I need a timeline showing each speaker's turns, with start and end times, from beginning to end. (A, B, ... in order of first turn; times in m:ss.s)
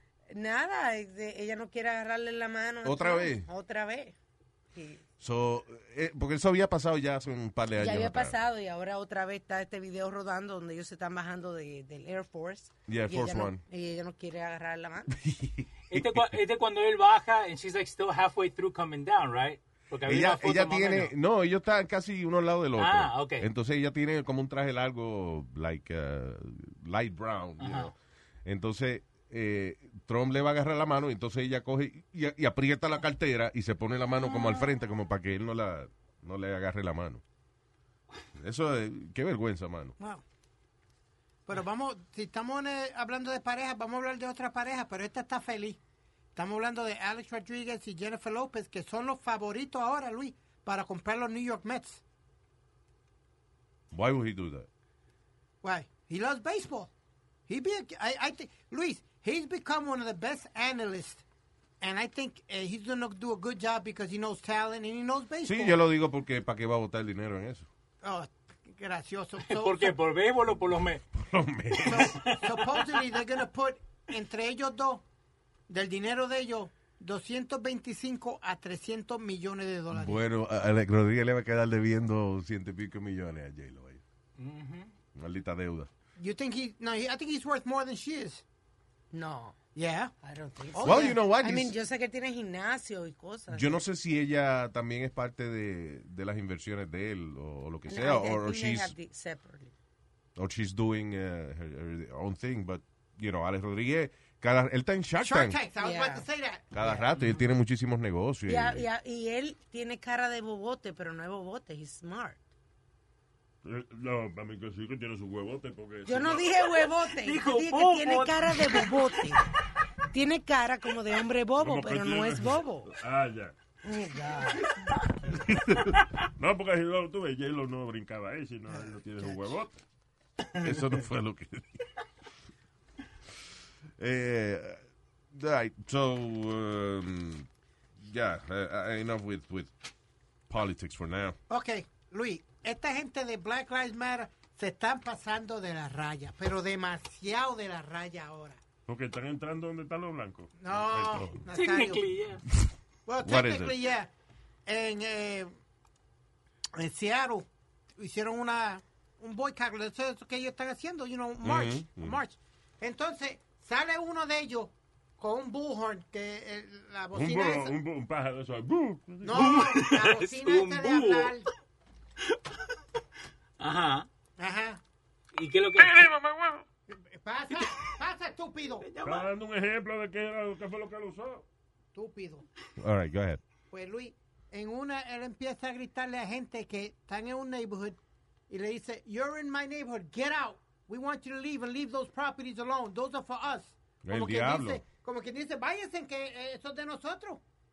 0:00.3-0:04.2 A
0:02.8-0:03.5 B
0:04.7-0:05.0 A
0:05.2-0:08.4 B
0:07.8-0:15.2 A
0:12.9-0:13.6 B
0:15.1-0:16.3 B
0:15.9-0:21.1 C
0:20.0-0:37.2 B
0:22.8-0:23.5 C
0:27.6-0:27.9 C
0:38.4-0:40.0 B
0:40.0-0:40.2 D
0:41.5-0:45.8 D
0:46.4-0:52.0 D
0:53.9-0:54.7 B
0:55.6-0:56.9 D
0:57.5-1:01.2 D
1:01.8-1:05.8 D
1:05.4-1:07.7 B
1:08.0-1:10.0 D
1:09.4-1:11.0 C
1:11.2-1:12.2 B
1:11.8-1:15.0 D
1:11.9-1:13.0 C
1:15.7-1:20.2 D
1:19.9-1:24.0 B
1:24.4-1:24.9 C
1:25.2-1:25.9 B
1:26.2-1:28.4 D
1:29.1-1:29.6 A
1:29.8-1:30.1 D
1:30.2-1:33.8 A
1:30.7-1:31.2 D
1:30.8-1:31.7 B
1:33.5-1:39.0 B
1:37.9-1:39.7 A
1:40.4-1:45.6 B
1:45.2-1:47.0 D
1:45.8-1:46.3 A
1:46.7-1:48.9 B
1:48.5-1:52.4 A
1:53.6-1:56.6 E
1:56.1-1:59.5 A
1:57.1-1:59.4 C
2:00.1-2:02.9 A
2:01.6-2:03.5 E
2:03.8-2:04.7 A
2:05.4-2:06.0 B
2:06.4-2:09.8 E
2:10.6-2:11.8 B
2:14.0-2:14.8 B
2:15.3-2:17.5 B
2:18.0-2:19.7 B
2:20.5-2:21.4 B
2:21.5-2:28.6 D
2:28.9-2:31.4 E
2:30.6-2:32.0 D
2:31.5-2:32.4 C
2:33.1-2:34.1 D
2:33.2-2:33.8 B
2:34.7-2:35.5 D
2:36.8-2:47.8 D
2:41.4-2:42.2 B
2:47.1-2:49.7 E
2:49.2-2:51.5 D
2:49.4-2:51.4 C
2:52.2-2:52.5 C
2:53.6-2:54.1 C
2:54.4-2:54.8 D
2:55.3-2:56.1 C
2:55.8-2:56.6 E
2:56.9-2:58.9 D
2:57.5-2:57.9 C
2:58.8-2:59.3 C
2:59.0-3:01.4 E
3:02.0-3:02.5 D
3:02.8-3:03.4 B
3:03.7-3:08.0 D
3:08.5-3:17.4 D
3:14.0-3:14.8 B